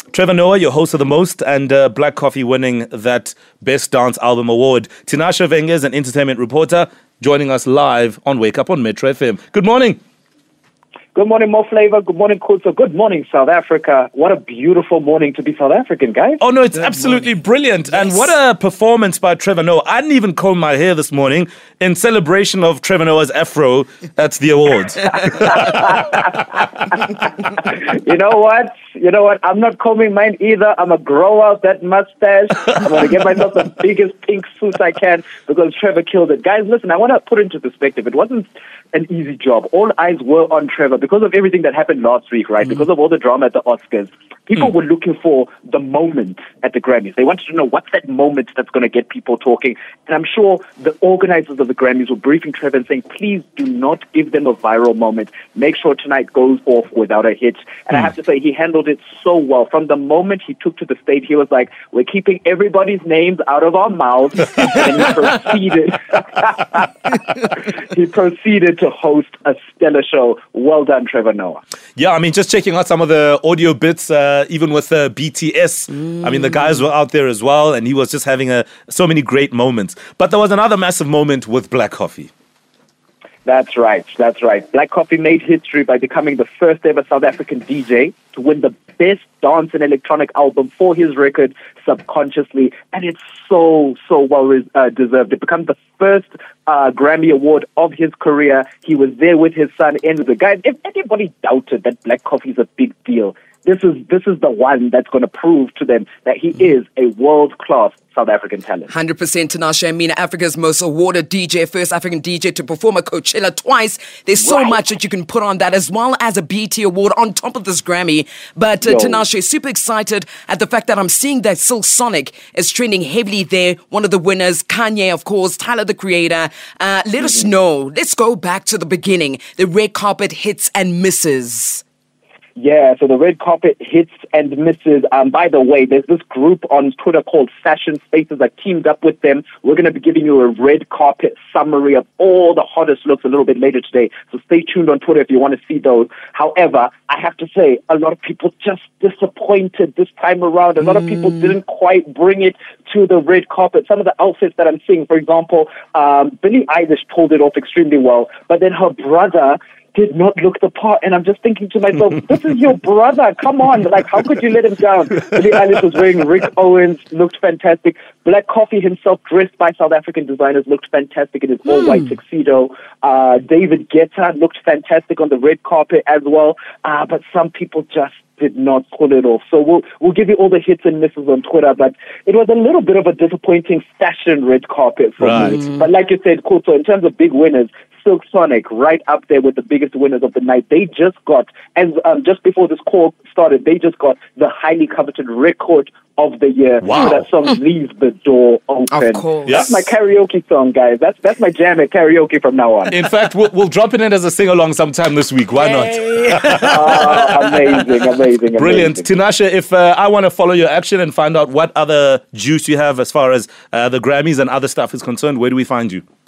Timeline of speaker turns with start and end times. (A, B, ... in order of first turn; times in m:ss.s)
0:00.1-0:10.0 A
0:11.1-0:16.4 B
0:16.4-0:25.9 A
0:25.6-1:06.9 B
1:07.4-1:11.6 B
1:12.0-1:22.3 A
1:23.4-1:48.9 B
1:48.9-2:11.8 C
1:54.4-1:54.8 B
1:58.8-1:59.2 B
2:12.6-3:23.0 B
3:05.2-3:05.6 A
3:16.8-3:17.2 A
3:18.9-3:19.7 C
3:19.4-3:19.7 A
3:22.9-3:27.3 A
3:25.6-3:26.7 C
3:26.6-3:29.1 B
3:28.5-3:36.0 A